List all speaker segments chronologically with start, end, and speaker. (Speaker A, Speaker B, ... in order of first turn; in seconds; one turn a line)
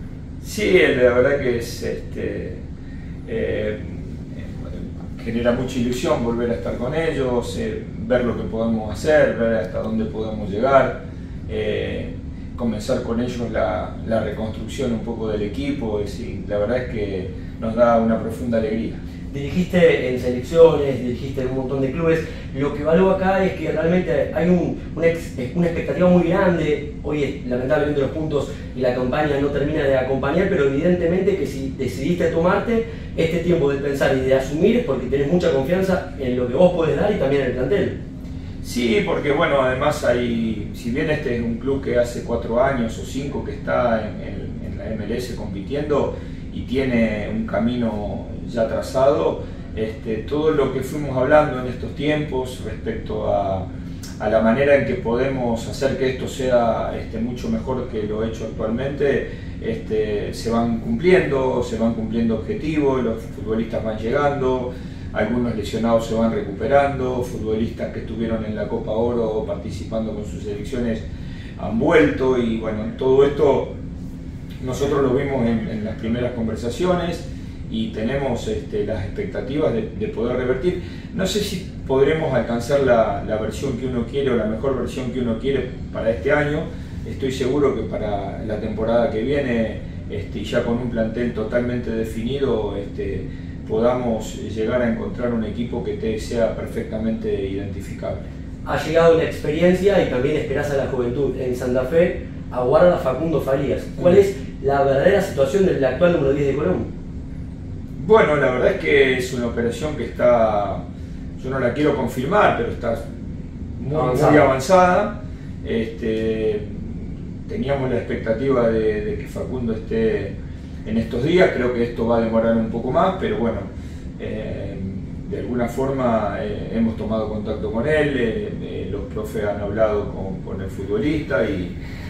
Speaker A: 0.4-2.6
Speaker A: 3.2-19.0
Speaker B: 19.3-38.0
Speaker A: 38.6-53.6
Speaker A: 54.2-71.0
Speaker A: 71.6-73.7
Speaker A: 74.6-98.2
Speaker B: 98.6-106.9
Speaker A: 108.0-110.8
Speaker A: 111.4-113.0
Speaker A: 113.8-120.3
Speaker B: 113.9-114.5
Speaker A: 120.8-131.8